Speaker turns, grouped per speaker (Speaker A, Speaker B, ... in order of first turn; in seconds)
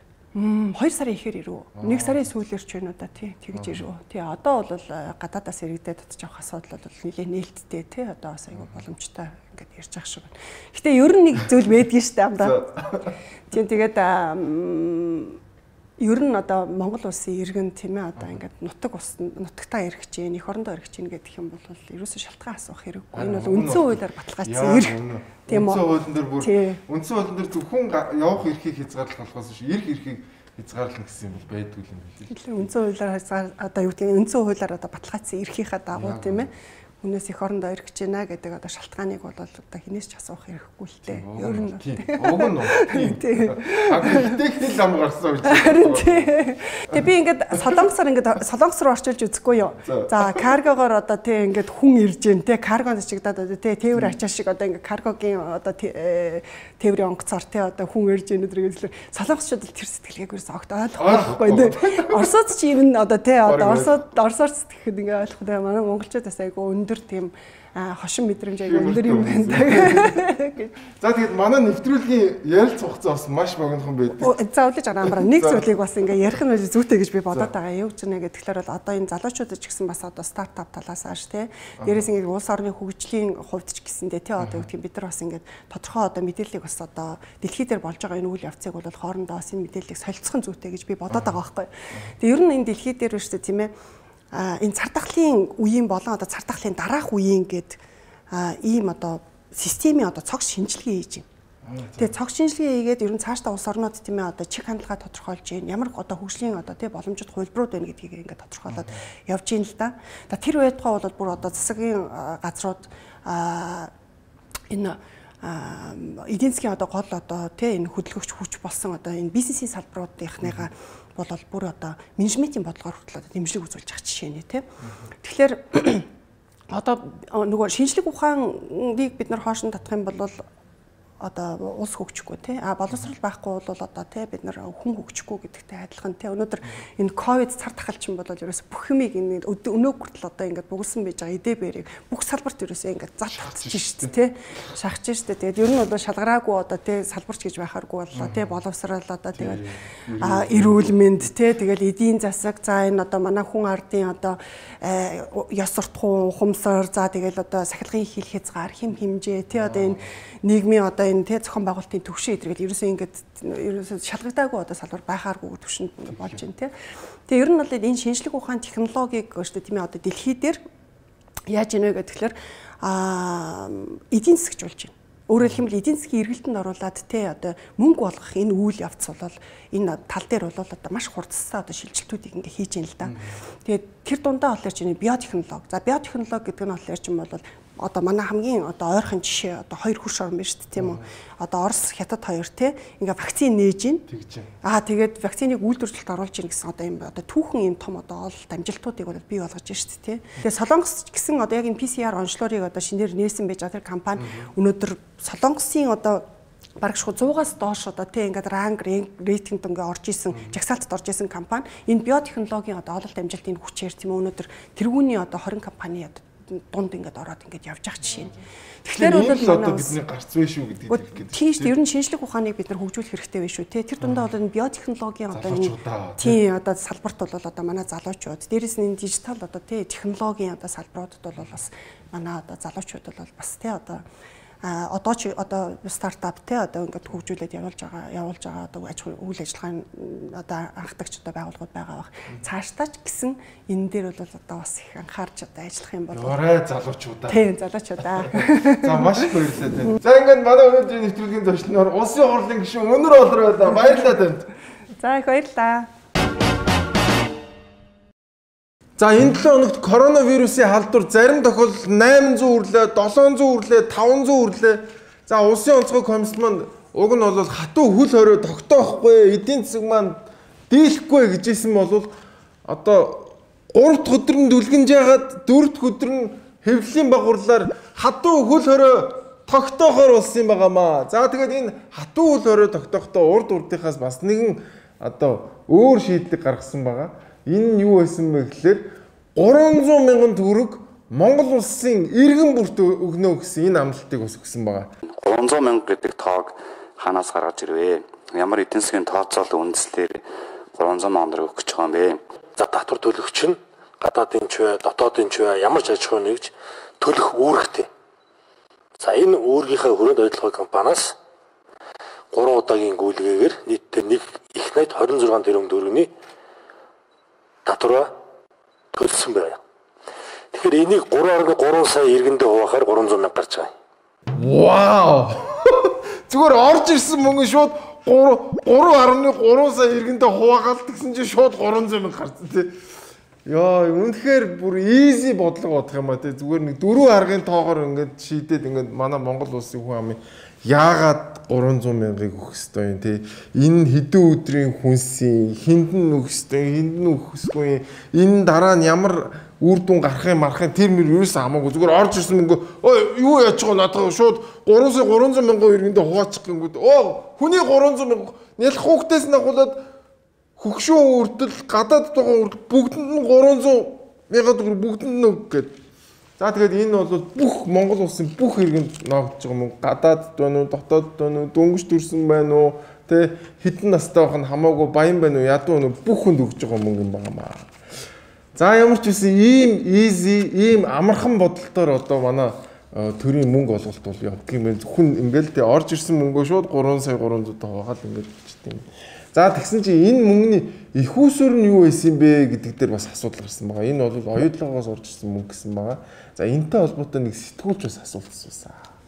Speaker A: 0.3-12.7, 13.5-15.4, 16.0-25.0, 25.5-25.9, 26.4-26.8, 32.3-44.4, 45.5-70.7, 74.2-93.7, 94.3-101.3, 102.0-113.9, 114.7-124.7, 125.2-126.1, 126.7-130.5, 131.2-149.7, 150.2-166.7, 167.3-170.6, 171.5-194.1, 194.6-206.2, 206.8-220.0, 220.9-234.0, 234.6-246.4, 247.3-249.3, 253.8-254.1, 255.0-255.9
Speaker B: 1.8-2.2, 3.5-3.8, 8.5-8.8, 12.4-13.1, 23.1-32.7, 35.9-36.5, 41.1-46.3, 49.9-50.6, 61.0-62.3, 63.5-64.0, 68.6-70.2, 71.0-74.4, 75.0-75.7, 81.8-82.1, 84.4-84.7, 91.1-91.4, 101.6-102.1, 108.7-109.0, 120.4-120.7, 143.3-144.1, 148.1-148.6, 149.3-151.1, 159.5-160.1, 166.0-166.4, 183.0-183.4, 190.8-191.1, 194.1-194.5, 204.2-204.5, 210.3-210.6, 218.1-218.4, 218.9-221.8, 224.0-224.3, 225.3-226.4, 246.1-247.4, 248.0-254.5, 259.0-272.1, 272.7-294.9, 324.4-332.7, 333.5-359.8, 360.6-365.8, 366.4-377.7, 378.6-398.8
Speaker C: 295.1-302.2
Speaker D: 302.6-307.9, 309.0-311.2, 312.3-316.1, 317.6-318.1, 318.9-319.6, 320.5-323.7